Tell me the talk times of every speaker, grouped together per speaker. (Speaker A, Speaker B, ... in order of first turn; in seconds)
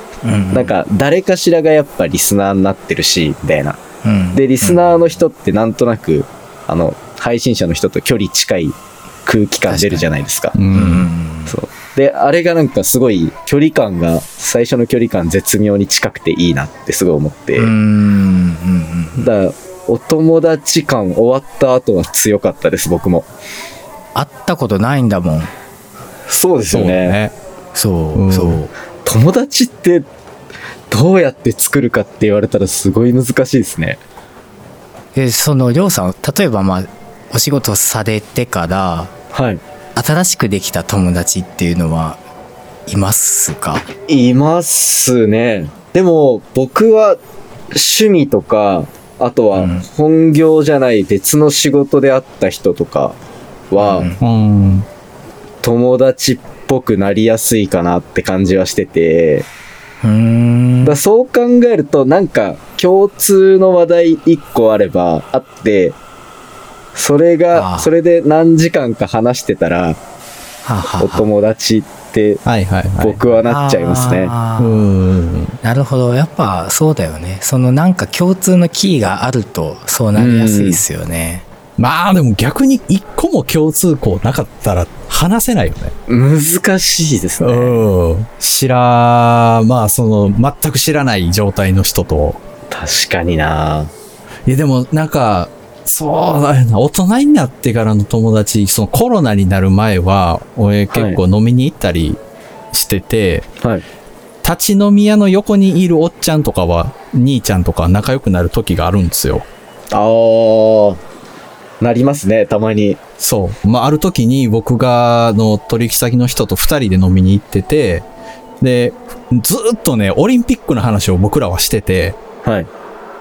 Speaker A: 0.2-0.7, 4.0-4.8, 9.7-10.1, 10.7-11.6, 17.6-19.3, 24.1-25.5, 27.8-28.7, 35.1-39.1, 40.0-42.2, 42.9-43.9, 49.6-49.8, 53.8-54.2, 60.0-61.0, 67.5-67.9, 70.7-71.3, 73.5-74.9, 75.6-81.4
Speaker B: 0.5-3.8, 4.3-10.6, 11.5-17.7, 19.2-23.3, 26.3-27.2, 29.1-30.1, 30.9-34.0, 39.3-39.6, 44.1-47.2, 47.7-53.2, 53.7-54.1, 55.6-59.5, 60.8-66.0, 67.0-70.0, 71.0-72.4, 73.0-74.3, 80.2-80.8, 86.1-87.8, 92.7-93.9, 100.9-101.2, 109.9-111.0, 111.8-113.0, 122.4-122.7
Speaker C: 10.5-11.1, 26.7-27.4, 28.1-28.6, 54.2-54.9, 72.5-73.2, 74.6-75.6, 81.8-85.9, 87.4-92.4, 94.5-102.2, 102.7-103.5, 104.4-109.5, 113.2-118.1, 118.6-122.2